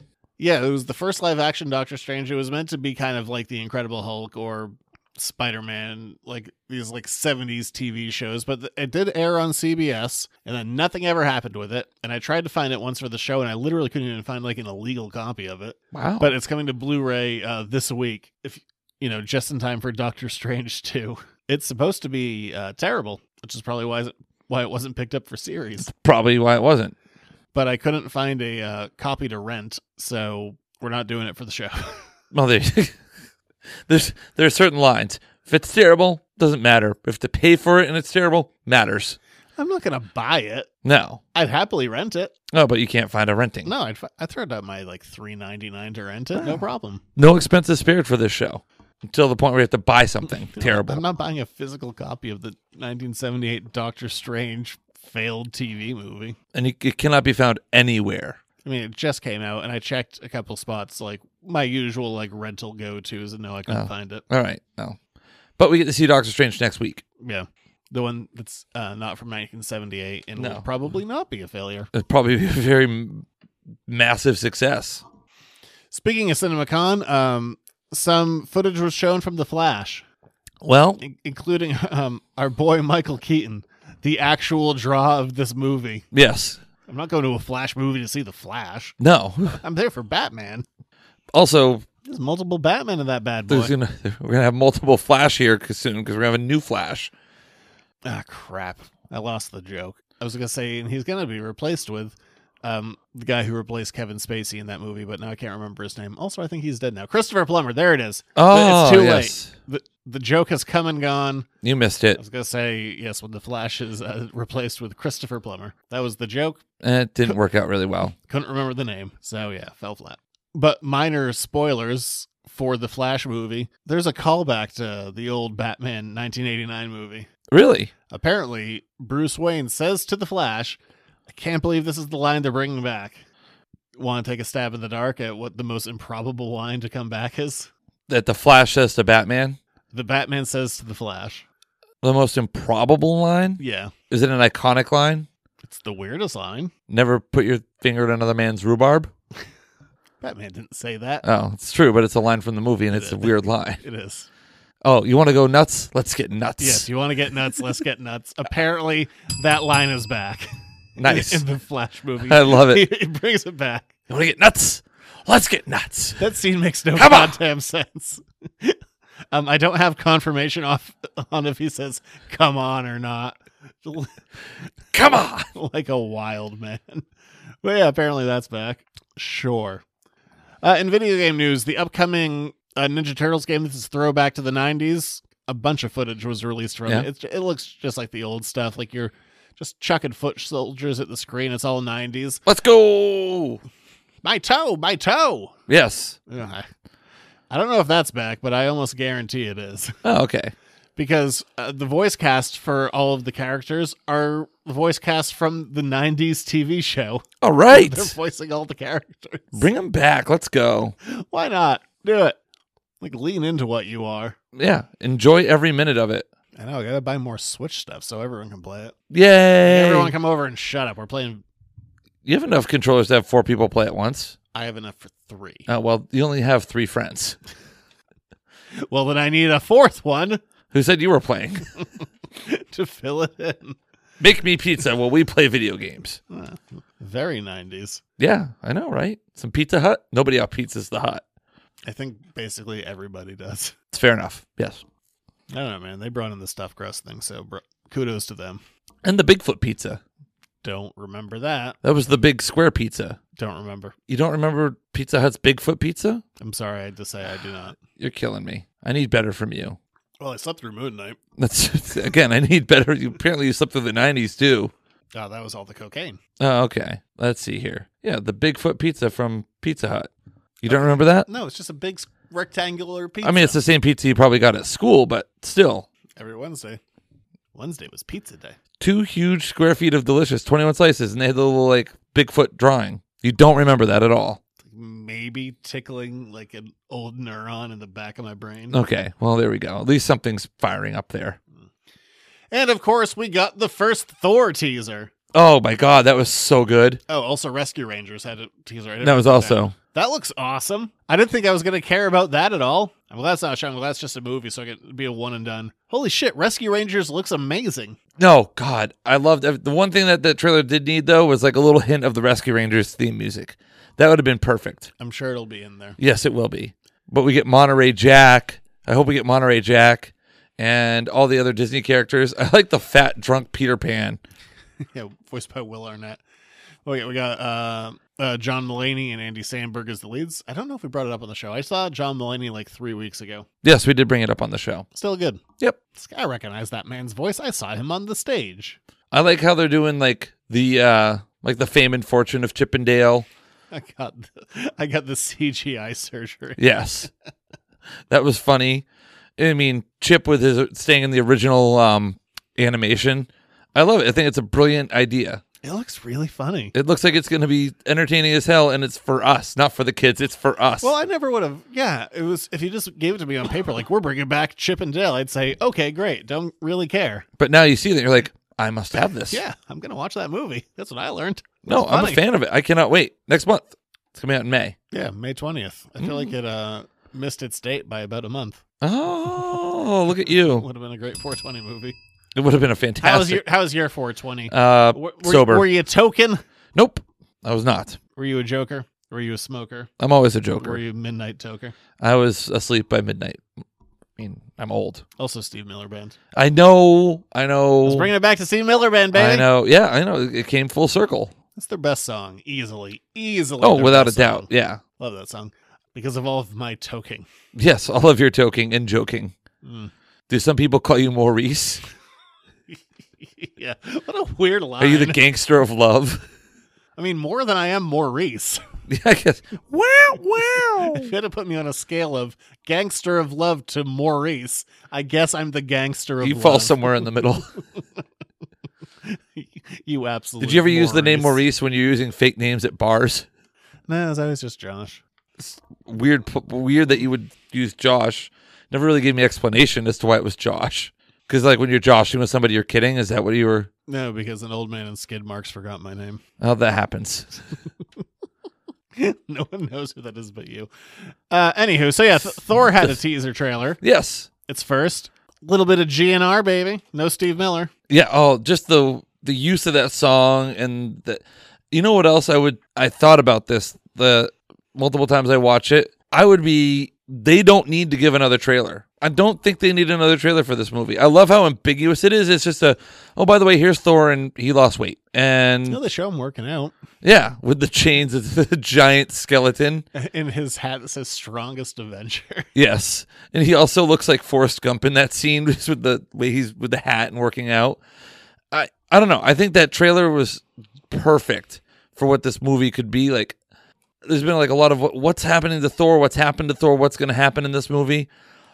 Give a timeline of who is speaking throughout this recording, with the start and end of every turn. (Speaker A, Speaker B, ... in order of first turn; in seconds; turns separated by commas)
Speaker A: 0.4-25.9, Speaker B: 15.9-16.4, Speaker B: 25.8-26.9, Speaker A: 27.5-32.0, Speaker B: 32.3-33.0, Speaker B: 33.9-39.2, Speaker A: 39.6-40.7, Speaker B: 40.8-41.2, Speaker A: 41.3-42.3, Speaker B: 42.5-43.7, Speaker A: 43.6-47.0, Speaker B: 47.2-51.0, Speaker A: 50.5-56.4, Speaker B: 56.5-58.4, Speaker A: 58.6-64.2, Speaker B: 63.7-65.0, Speaker B: 65.6-67.0, Speaker A: 67.2-71.9, Speaker B: 70.4-70.7, Speaker B: 71.9-73.3, Speaker B: 73.9-75.0, Speaker A: 75.9-80.1, Speaker B: 80.6-81.0, Speaker A: 81.0-86.1, Speaker B: 86.1-86.6, Speaker A: 86.9-89.0, Speaker B: 89.0-89.6, Speaker A: 89.6-90.7, Speaker B: 91.3-91.8, Speaker A: 92.0-93.7, Speaker B: 93.5-97.1, Speaker A: 98.0-111.5, Speaker B: 108.3-109.5, Speaker B: 111.6-112.2, Speaker A: 112.2-116.6, Speaker B: 116.8-118.2, Speaker A: 118.3-127.3, Speaker B: 127.5-127.9, Speaker A: 128.1-133.2, Speaker A: 134.0-137.7, Speaker B: 138.1-139.6, Speaker A: 139.9-141.4, Speaker B: 142.0-145.3, Speaker A: 143.6-143.9, Speaker A: 145.6-146.7, Speaker B: 146.9-149.1, Speaker A: 150.2-151.2, Speaker B: 151.2-153.8, Speaker A: 152.9-154.3, Speaker B: 154.8-156.9, Speaker A: 156.6-160.5, Speaker B: 161.0-161.4, Speaker A: 161.0-163.9, Speaker B: 162.3-162.9, Speaker B: 164.1-166.2, Speaker A: 166.2-168.8, Speaker B: 166.9-167.4, Speaker A: 169.3-174.1, Speaker B: 174.9-175.5, Speaker A: 175.1-177.1, Speaker A: 177.6-179.8, Speaker A: 180.6-192.4, Speaker B: 192.5-193.6, Speaker A: 194.2-195.5, Speaker B: 195.7-196.2, Speaker A: 196.3-196.7, Speaker A: 197.5-200.0, Speaker B: 200.0-200.5, Speaker A: 201.0-209.7, Speaker B: 207.4-208.2, Speaker B: 209.5-211.0, Speaker A: 211.1-212.4, Speaker A: 213.0-214.4, Speaker B: 214.6-216.3, Speaker A: 216.6-218.9, Speaker B: 219.1-220.2, Speaker A: 219.7-221.4, Speaker B: 222.2-224.4, Speaker A: 224.5-225.7, Speaker B: 225.7-227.4, Speaker A: 228.9-230.4, Speaker B: 230.7-231.7, Speaker A: 232.4-233.8, Speaker B: 234.2-236.2, Speaker A: 236.3-238.0, Speaker B: 238.2-241.2, Speaker A: 241.9-243.7, Speaker B: 243.9-244.8, Speaker A: 245.5-248.6, Speaker B: 249.0-250.0, Speaker A: 250.6-251.8, Speaker B: 251.8-253.2, Speaker A: 253.4-253.9, Speaker B: 254.1-256.2, Speaker A: 256.4-257.8, Speaker B: 258.0-259.8, Speaker A: 260.2-261.2, Speaker B: 261.4-264.7, Speaker A: 265.1-266.2, Speaker B: 266.4-270.1, Speaker B: 270.6-271.3, Speaker A: 270.7-273.6, Speaker B: 273.2-275.9, Speaker A: 276.2-276.8, Speaker A: 277.6-278.6, Speaker B: 278.8-284.4, Speaker A: 284.7-288.8, Speaker B: 288.7-291.4, Speaker A: 292.5-295.1, Speaker B: 295.3-297.0, Speaker A: 297.1-308.0, Speaker B: 299.0-299.8, Speaker B: 308.2-314.9, Speaker A: 315.0-316.0, Speaker B: 316.0-324.2, Speaker A: 324.9-326.2, Speaker A: 326.9-333.5, Speaker B: 333.6-334.9, Speaker A: 334.9-335.4, Speaker A: 335.9-338.8, Speaker B: 339.1-343.3, Speaker A: 343.7-346.6, Speaker B: 346.6-347.1, Speaker B: 348.1-348.9, Speaker B: 349.4-355.4, Speaker A: 355.6-356.7, Speaker B: 356.8-360.9, Speaker A: 360.8-367.3, Speaker B: 367.4-369.4, Speaker A: 369.2-372.2, Speaker B: 371.7-374.8, Speaker A: 374.9-378.6, Speaker B: 376.0-376.3, Speaker B: 378.8-380.7, Speaker A: 380.5-382.0, Speaker B: 382.4-383.4, Speaker A: 383.0-386.4, Speaker B: 384.5-385.7, Speaker B: 386.8-388.0, Speaker A: 388.2-389.9, Speaker B: 390.0-390.8, Speaker A: 390.6-391.7, Speaker B: 392.0-393.4, Speaker B: 394.2-395.0, Speaker A: 395.2-396.2, Speaker B: 396.3-398.1, Speaker A: 397.8-399.5, Speaker B: 399.1-401.3, Speaker A: 401.6-407.3, Speaker B: 403.6-404.8, Speaker B: 407.5-409.4, Speaker A: 409.6-409.9, Speaker B: 410.3-411.8, Speaker A: 412.7-415.2, Speaker B: 414.8-416.3, Speaker A: 417.0-418.6, Speaker B: 418.9-421.1, Speaker A: 420.8-426.8, Speaker B: 426.2-427.5, Speaker A: 429.1-431.4, Speaker B: 430.4-433.3, Speaker A: 433.9-435.0, Speaker B: 435.4-443.7, Speaker A: 443.9-446.2, Speaker B: 446.4-447.4, Speaker A: 449.0-450.7, Speaker A: 451.3-453.8, Speaker B: 452.5-452.9, Speaker B: 453.8-454.3, Speaker A: 454.5-457.7, Speaker B: 457.9-475.8, Speaker A: 475.7-476.7, Speaker B: 477.0-479.9, Speaker A: 479.9-482.5, Speaker B: 482.6-487.8, Speaker B: 488.5-493.4, Speaker B: 494.0-498.1